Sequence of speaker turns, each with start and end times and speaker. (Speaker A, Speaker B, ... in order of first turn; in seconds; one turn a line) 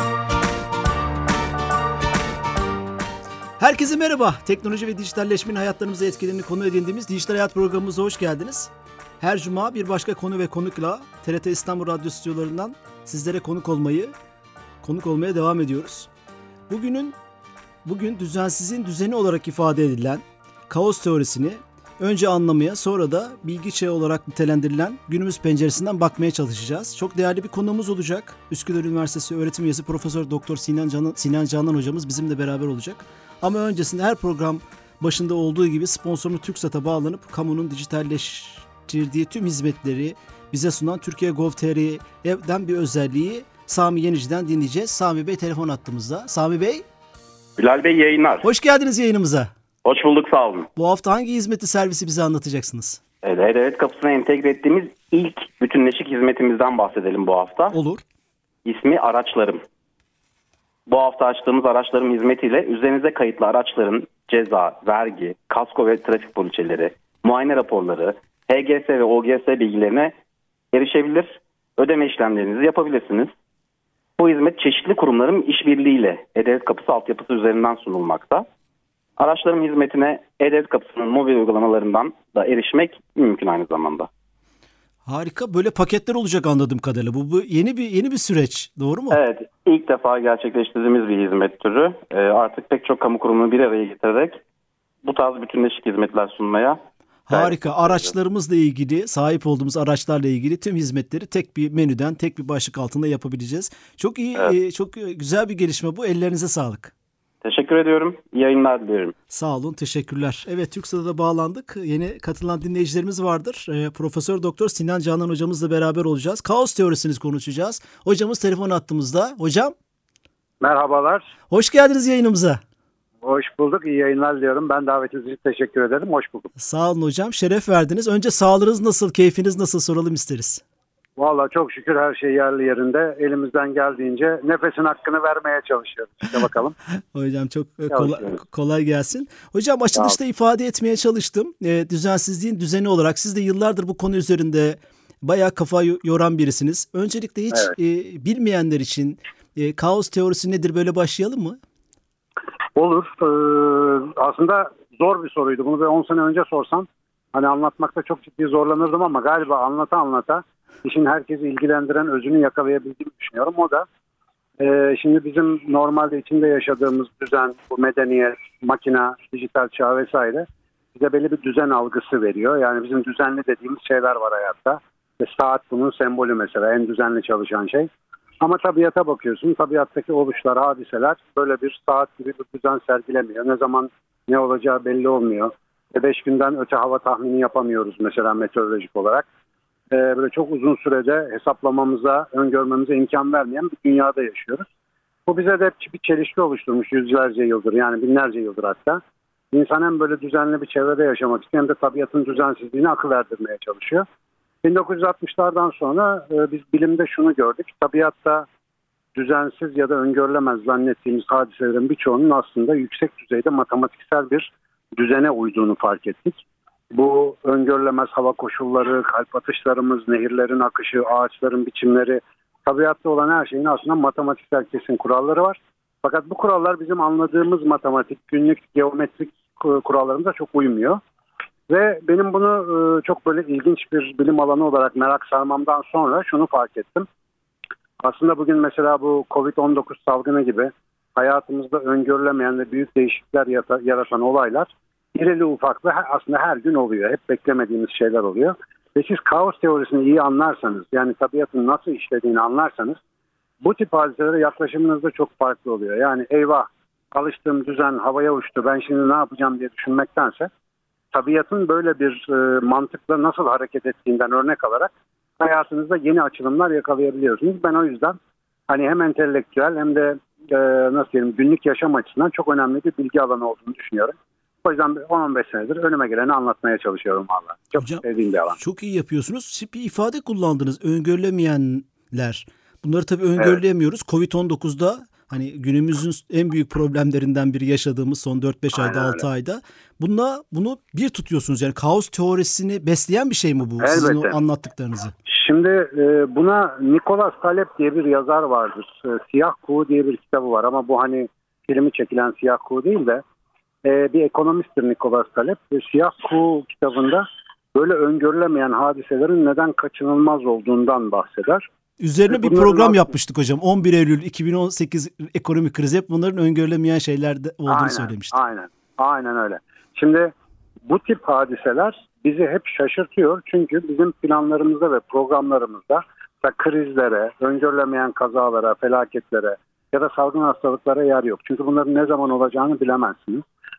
Speaker A: 3.6-14.1
Speaker A: 14.8-16.1
Speaker A: 16.7-17.1
Speaker A: 17.8-46.8
Speaker B: 47.6-48.5
Speaker A: 48.4-49.5
Speaker B: 49.8-50.7
Speaker A: 50.8-53.0
Speaker B: 53.2-57.7
Speaker A: 57.7-58.0
Speaker B: 58.6-59.6
Speaker B: 60.9-70.1
Speaker B: 70.7-73.3
Speaker B: 74.2-78.4
Speaker B: 79.2-84.1
Speaker A: 85.0-89.2
Speaker B: 89.1-94.4
Speaker B: 95.0-96.8
Speaker A: 97.3-106.9
Speaker B: 97.3-98.1
Speaker B: 107.4-109.1
Speaker A: 109.3-119.7
Speaker C: 120.6-121.3
Speaker A: 121.5-122.6
Speaker C: 123.2-126.5
Speaker A: 126.5-130.6
Speaker C: 131.2-136.8
Speaker A: 137.1-151.6
Speaker C: 137.9-138.4
Speaker C: 152.8-163.8
Speaker C: 164.6-177.9
Speaker C: 178.4-189.2
Speaker C: 189.9-194.6
Speaker C: 195.3-199.0
Speaker C: 199.5-204.1
Speaker C: 204.6-208.4
Speaker C: 209.2-216.4
Speaker C: 216.9-231.0
Speaker C: 231.7-237.1
Speaker C: 238.0-253.0
Speaker C: 253.6-260.5
Speaker C: 261.1-268.2
Speaker C: 268.7-278.6
Speaker A: 278.6-295.1
Speaker C: 288.7-289.2
Speaker C: 293.8-294.4
Speaker C: 295.3-303.2
Speaker C: 303.8-311.6
Speaker A: 312.0-318.3
Speaker C: 312.3-313.1
Speaker C: 317.7-320.3
Speaker C: 320.9-333.4